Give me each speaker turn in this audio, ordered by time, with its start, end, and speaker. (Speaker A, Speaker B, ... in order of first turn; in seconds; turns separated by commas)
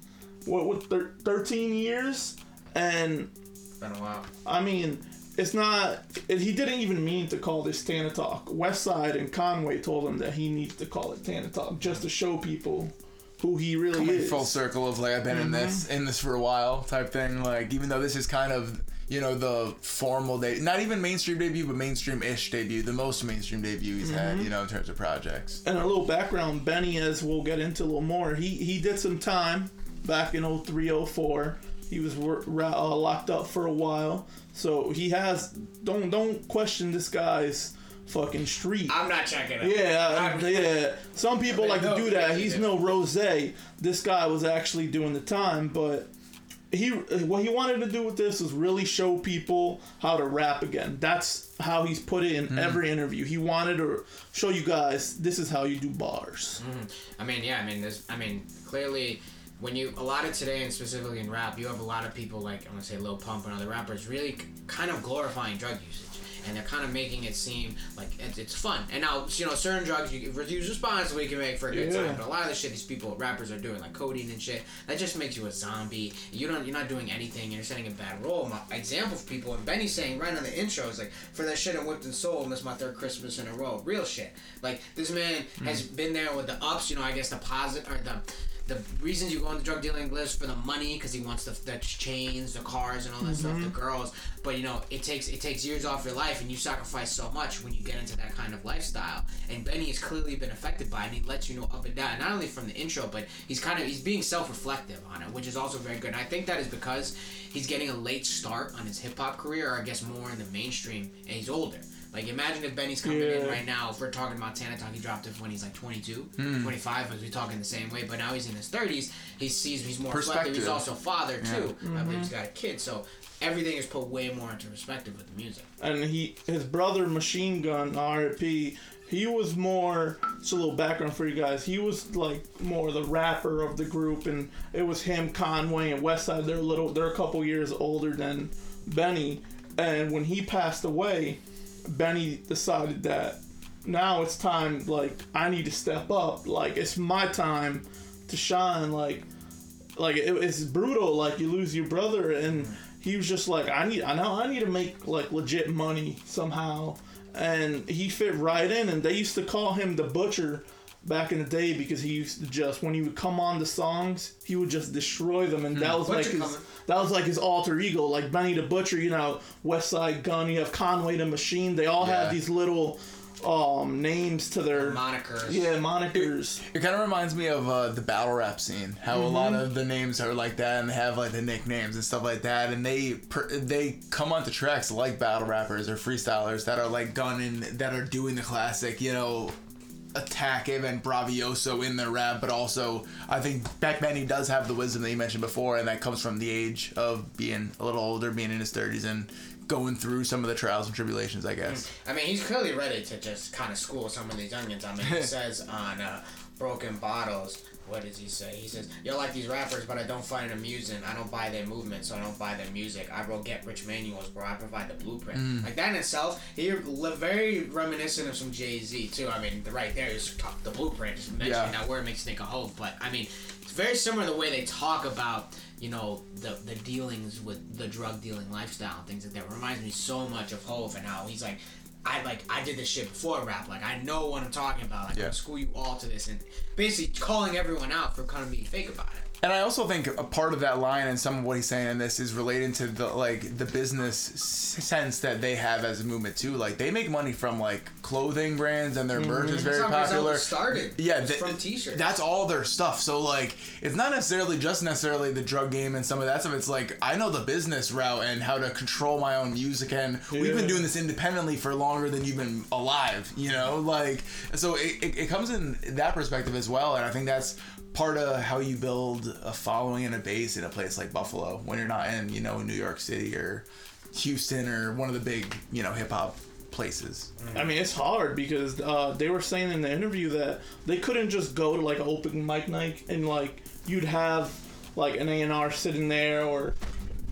Speaker A: 0.4-3.3, Speaker B: 3.8-4.3, Speaker A: 4.4-14.6, Speaker C: 13.9-25.6, Speaker A: 15.3-15.8, Speaker A: 24.0-24.5, Speaker A: 25.6-38.9, Speaker B: 38.9-40.8, Speaker A: 39.6-46.1, Speaker B: 41.4-42.9, Speaker A: 46.7-56.6, Speaker C: 52.5-52.8, Speaker B: 56.6-125.7, Speaker A: 71.7-72.2, Speaker A: 93.2-93.7, Speaker A: 113.0-113.6, Speaker C: 116.4-116.7, Speaker C: 120.1-120.8, Speaker C: 121.4-121.7, Speaker A: 121.8-122.3, Speaker A: 125.8-149.2, Speaker A: 149.9-176.6, Speaker C: 165.7-166.0, Speaker B: 166.0-166.7, Speaker C: 172.0-172.4, Speaker B: 174.7-175.7, Speaker C: 176.1-189.6, Speaker A: 179.1-179.6, Speaker C: 190.1-201.8, Speaker B: 201.6-239.2, Speaker C: 205.0-205.3, Speaker C: 215.3-215.7, Speaker C: 221.4-221.7, Speaker C: 239.4-277.3, Speaker A: 249.1-249.7, Speaker B: 249.5-252.1, Speaker A: 260.3-260.9, Speaker B: 277.4-277.7, Speaker A: 277.5-286.8